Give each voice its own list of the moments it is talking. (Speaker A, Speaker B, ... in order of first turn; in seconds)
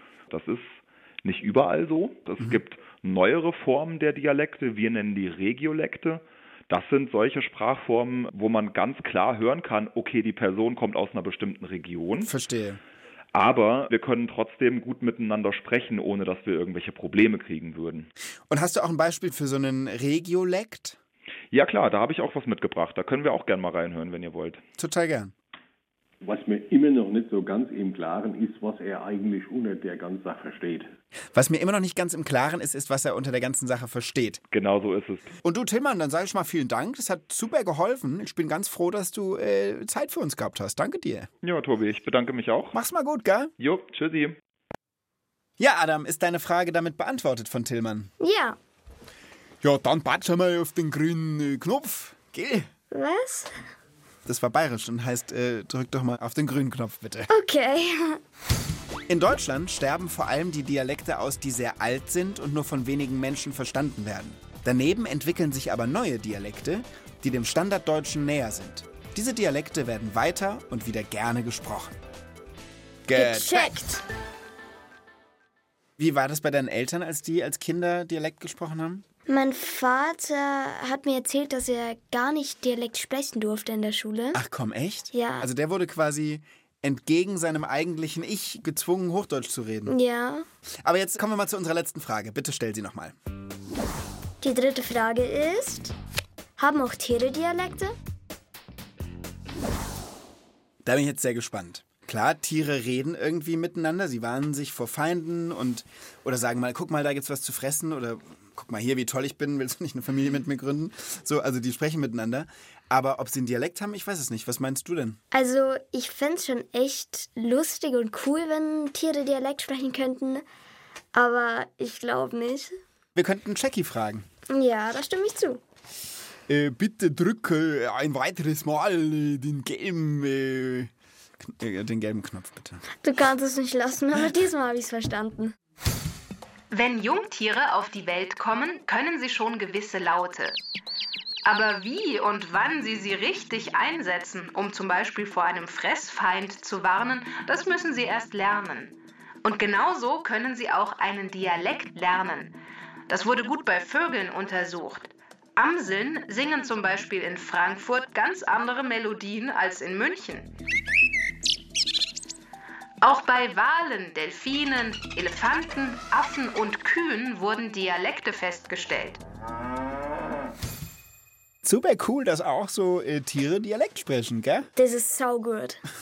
Speaker A: 0.3-12.3, 13.3-18.1, 21.5-24.6, 34.5-35.3, 41.4-42.8, 43.6-44.4
Speaker B: 12.2-12.8, 18.5-21.0, 24.8-25.3, 31.3-34.4, 35.4-41.3, 42.7-43.5, 45.6-48.1, 49.6-52.7, 54.2-57.3, 59.1-72.0, 73.0-73.7, 76.0-79.0, 84.3-90.0, 90.8-93.2, 100.8-115.2, 123.1-124.2, 126.5-132.8, 171.6-174.7
Speaker C: 26.2-30.9
Speaker D: 48.2-48.6, 52.9-53.5, 57.3-58.2, 73.1-74.0, 79.3-84.4, 85.1-85.5, 89.9-90.5, 94.4-95.9, 96.6-97.9, 115.3-120.4, 121.1-122.7, 124.5-125.6, 133.0-135.5, 174.8-175.8
Speaker E: 136.7-140.6, 141.4-152.5, 153.1-160.5, 163.0-169.2